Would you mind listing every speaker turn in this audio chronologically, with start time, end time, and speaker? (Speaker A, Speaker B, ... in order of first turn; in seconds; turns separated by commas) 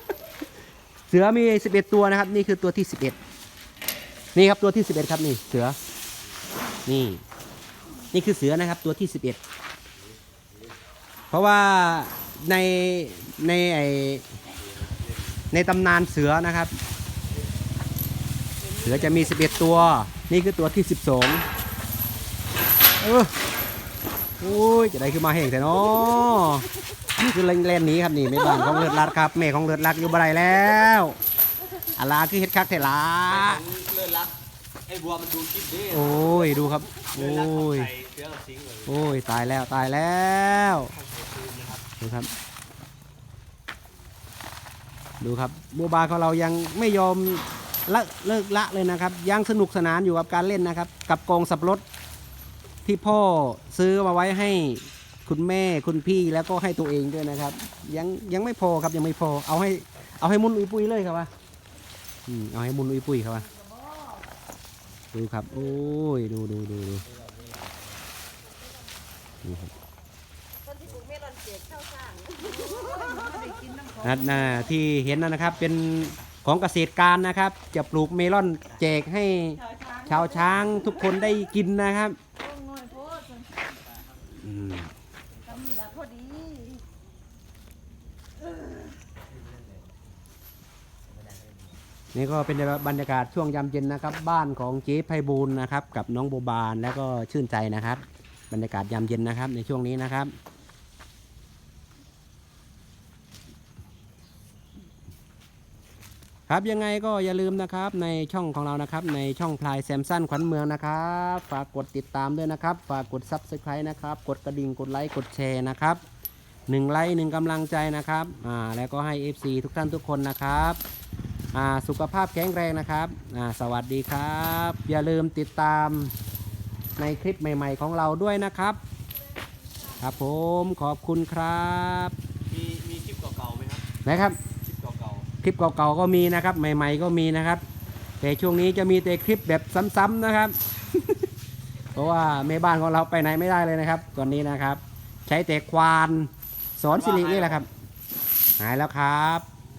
Speaker A: 1.1-3.1, Speaker A: 4.3-5.8, Speaker A: 6.8-7.2, Speaker A: 8.1-9.4, Speaker A: 11.3-14.2, Speaker A: 15.5-16.7, Speaker A: 18.8-21.4, Speaker A: 23.0-23.3, Speaker A: 24.4-31.1, Speaker A: 31.9-33.6, Speaker B: 33.3-34.3, Speaker B: 34.9-36.2, Speaker A: 35.9-37.9, Speaker B: 37.0-39.0, Speaker A: 38.9-40.9, Speaker B: 40.7-41.9, Speaker A: 42.0-42.3, Speaker A: 45.2-51.8, Speaker A: 52.8-61.3, Speaker A: 62.3-63.5, Speaker A: 65.1-67.0, Speaker A: 69.4-69.7, Speaker C: 70.8-74.0, Speaker A: 74.0-82.2, Speaker C: 82.4-83.5, Speaker A: 84.3-84.9, Speaker C: 85.5-86.8, Speaker A: 92.1-100.3, Speaker A: 106.5-116.0, Speaker A: 116.7-120.8, Speaker A: 121.5-126.1, Speaker A: 127.0-128.8, Speaker A: 130.0-132.1, Speaker B: 132.4-133.8, Speaker A: 134.0-134.4, Speaker B: 134.6-135.3, Speaker A: 135.4-137.6, Speaker A: 138.2-141.1, Speaker A: 141.9-147.7, Speaker B: 146.9-147.6, Speaker A: 148.6-149.4